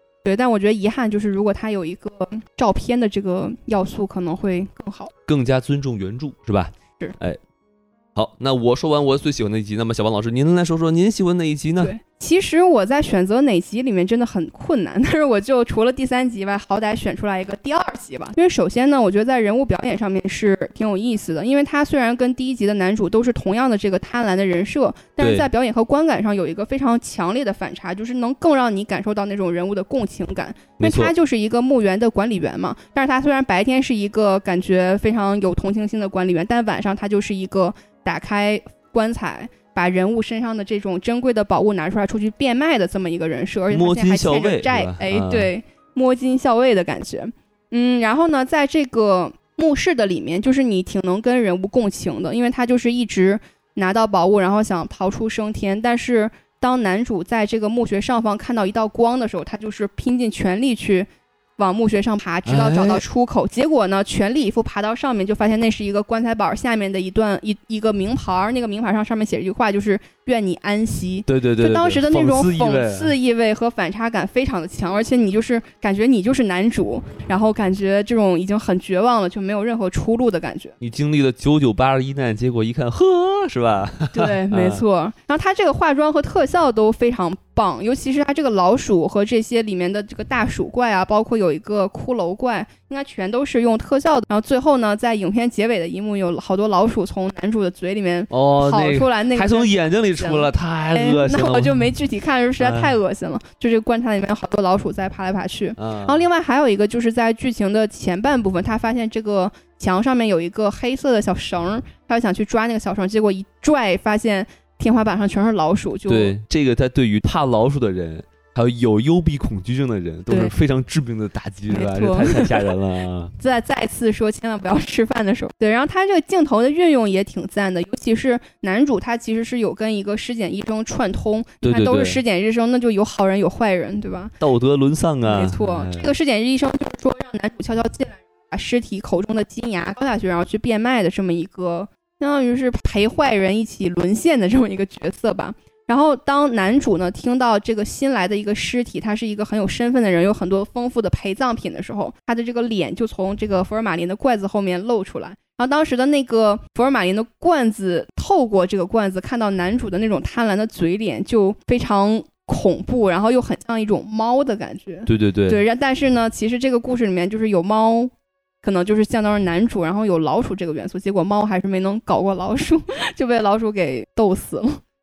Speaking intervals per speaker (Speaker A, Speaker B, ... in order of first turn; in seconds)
Speaker A: 0.2-5.1, 11.8-80.7, 84.1-116.3, 120.3-120.5, 121.7-122.6, 123.4-134.3, 135.2-174.8
Speaker B: 5.3-7.4, 8.1-11.9, 25.2-25.5, 30.8-31.1, 43.7-45.5, 62.5-63.0, 71.3-73.1, 80.8-84.8, 98.3-101.9, 102.6-102.9, 105.8-106.2, 116.1-123.3, 131.6-132.2, 134.4-136.1, 165.1-165.6